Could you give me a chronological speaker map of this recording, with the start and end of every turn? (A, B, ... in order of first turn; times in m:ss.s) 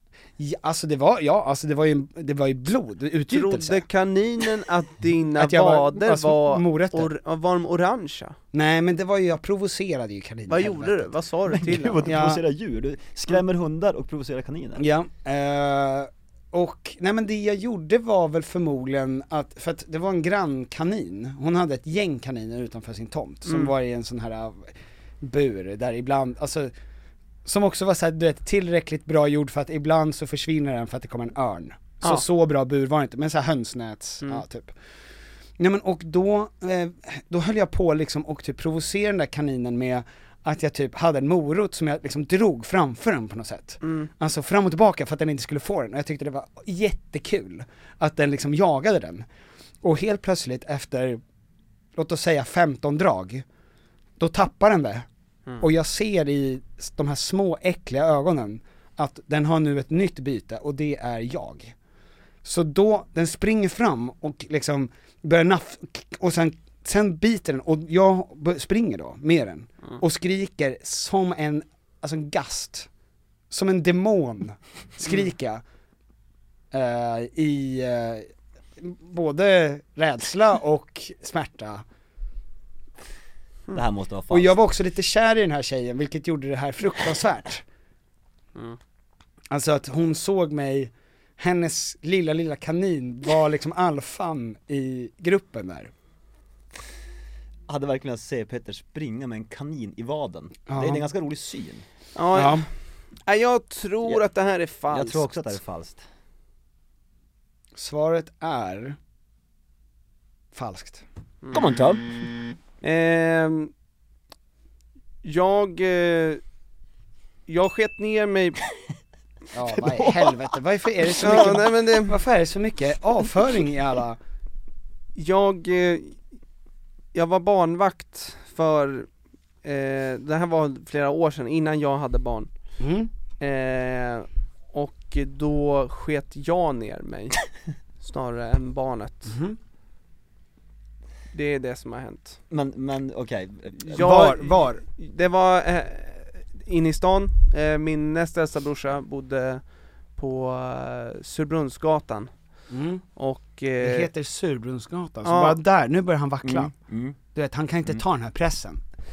0:00.4-0:03.9 A
0:03.3-0:08.4 B
0:05.4-0:07.1 A
0:08.5-0:11.1 A
0:10.5-0:12.0 B
0:11.5-0:14.8 C
0:12.1-0:12.4 A
0:14.8-0:26.7 A
0:27.4-0:34.7 A
0:35.6-0:49.2 A
0:43.8-0:44.1 B
0:49.8-0:51.2 A
0:52.0-0:53.4 A
0:54.2-0:55.1 A
0:55.6-1:01.7 A
1:02.4-1:12.9 A
1:13.5-1:15.6 A
1:16.7-1:21.8 A
1:23.7-1:24.6 C
1:24.3-1:27.6 A
1:29.5-1:35.9 A
1:37.7-1:41.8 C
1:40.7-1:41.0 A
1:42.2-1:42.6 B
1:42.4-1:42.7 A
1:43.2-1:45.3 B
1:44.9-1:46.0 C
1:47.8-1:49.0 A
1:50.5-1:51.0 A
1:51.5-1:52.2 C
1:52.8-1:53.7 B
1:55.2-1:56.4 B
1:57.5-1:58.6 B
1:59.5-2:04.2 A
1:59.8-2:00.5 C
2:01.0-2:01.6 C
2:01.2-2:02.2 B
2:05.2-2:06.2 B
2:07.1-2:09.1 B
2:09.6-2:12.5 B
2:12.8-2:13.1 A
2:13.4-2:17.4 B
2:18.0-2:19.3 B
2:19.3-2:19.6 A
2:21.3-2:22.4 B
2:22.5-2:24.1 C
2:23.8-2:32.3 B
2:24.0-2:24.8 A
2:32.7-2:33.0 A
2:33.2-2:34.1 B
2:33.8-2:36.7 A
2:35.2-2:35.6 B
2:36.4-2:37.2 C
2:37.3-2:38.8 A